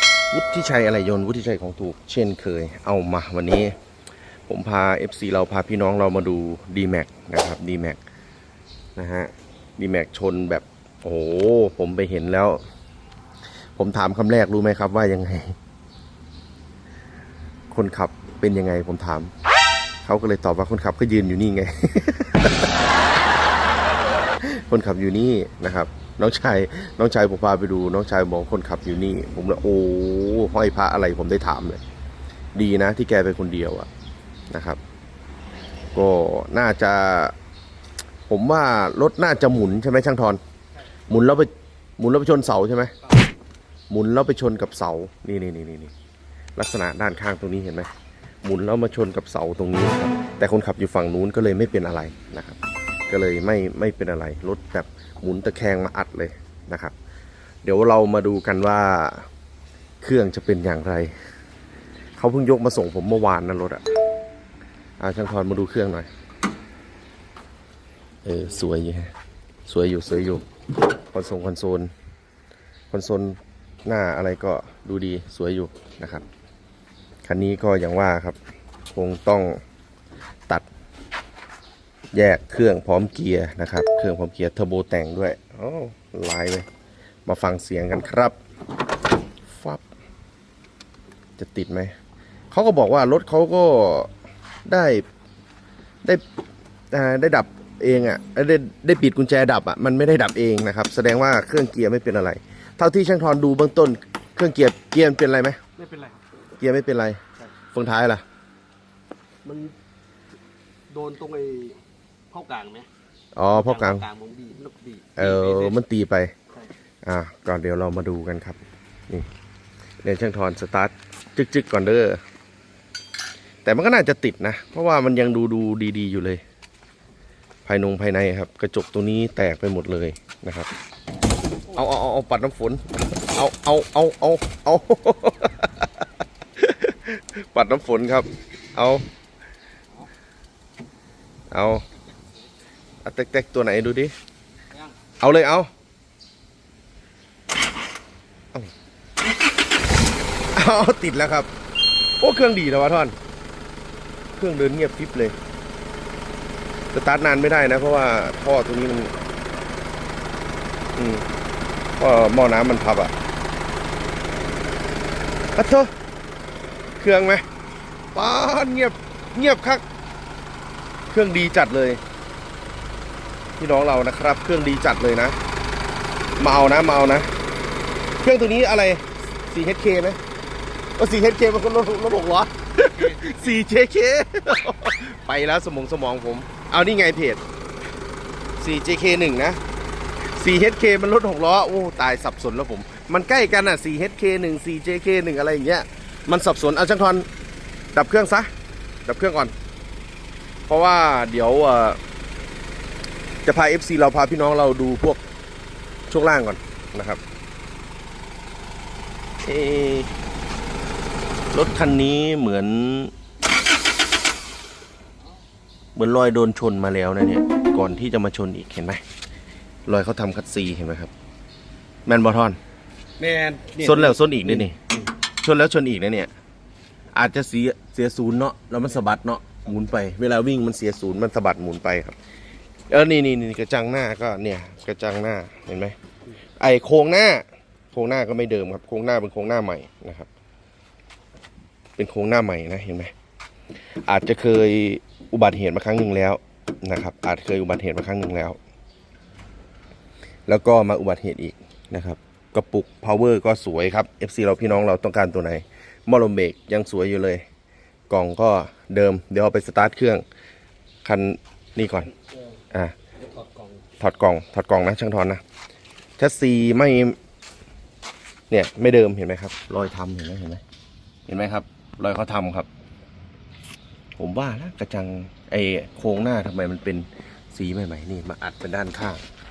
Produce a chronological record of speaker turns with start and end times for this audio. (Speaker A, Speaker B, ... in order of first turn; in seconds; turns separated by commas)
Speaker A: 0.3-3.7, Speaker A: 4.5-8.0, Speaker A: 8.9-12.6, Speaker A: 13.8-15.6, Speaker A: 17.7-19.3, Speaker A: 20.0-22.7, Speaker A: 24.4-31.8, Speaker A: 32.5-33.9, Speaker A: 34.5-34.8, Speaker A: 35.9-37.3, Speaker A: 38.3-40.4, Speaker A: 41.1-42.9, Speaker A: 43.9-45.9, Speaker A: 46.5-47.9, Speaker A: 48.4-56.9, Speaker A: 57.6-59.3, Speaker A: 60.0-61.1, Speaker A: 62.2-63.8, Speaker A: 65.0-66.1, Speaker A: 68.2-69.1, Speaker A: 69.7-70.4, Speaker A: 71.1-71.9, Speaker A: 72.9-76.2, Speaker A: 77.2-78.4, Speaker A: 78.9-79.6, Speaker A: 82.1-86.7, Speaker A: 87.2-88.3, Speaker A: 89.5-89.8, Speaker A: 91.4-91.9, Speaker A: 92.5-94.1, Speaker A: 94.7-95.0, Speaker A: 96.9-105.6, Speaker B: 105.8-106.2, Speaker A: 106.6-107.2, Speaker A: 107.7-108.2, Speaker B: 109.4-109.7, Speaker B: 110.9-112.9, Speaker A: 113.3-114.0, Speaker B: 113.6-115.7, Speaker A: 115.2-116.3, Speaker A: 117.0-119.3, Speaker A: 120.0-122.2, Speaker A: 123.6-126.4, Speaker A: 127.6-130.7, Speaker A: 131.7-136.0, Speaker A: 136.6-139.0, Speaker A: 141.5-141.8, Speaker A: 143.0-144.1, Speaker A: 145.2-145.7, Speaker A: 150.5-151.5, Speaker A: 152.2-153.1, Speaker A: 154.4-155.3, Speaker A: 156.9-159.1, Speaker A: 160.9-161.2, Speaker A: 162.0-163.1, Speaker A: 165.5-165.9, Speaker A: 167.0-167.4, Speaker A: 168.1-169.8, Speaker A: 171.1-172.0, Speaker A: 173.6-175.3, Speaker A: 176.4-177.3, Speaker A: 178.2-180.2, Speaker A: 181.0-187.4, Speaker B: 183.0-183.3, Speaker A: 188.6-189.6, Speaker A: 190.3-197.3, Speaker A: 197.9-198.5, Speaker A: 199.1-199.5, Speaker A: 200.7-202.0, Speaker A: 203.4-205.2, Speaker A: 206.1-207.2, Speaker A: 209.4-210.1, Speaker A: 211.5-213.1, Speaker A: 215.9-219.0, Speaker A: 219.8-221.1, Speaker A: 222.1-222.6, Speaker B: 223.2-224.7, Speaker A: 223.8-224.8, Speaker A: 225.4-226.3, Speaker A: 227.1-232.2, Speaker A: 232.9-235.9, Speaker A: 236.6-240.3, Speaker A: 242.0-243.1, Speaker A: 244.0-248.6, Speaker A: 250.5-257.4, Speaker A: 258.1-260.2, Speaker A: 261.0-262.1, Speaker A: 264.0-265.4, Speaker A: 266.2-267.2, Speaker A: 268.5-270.6, Speaker A: 271.3-272.7, Speaker A: 274.2-279.2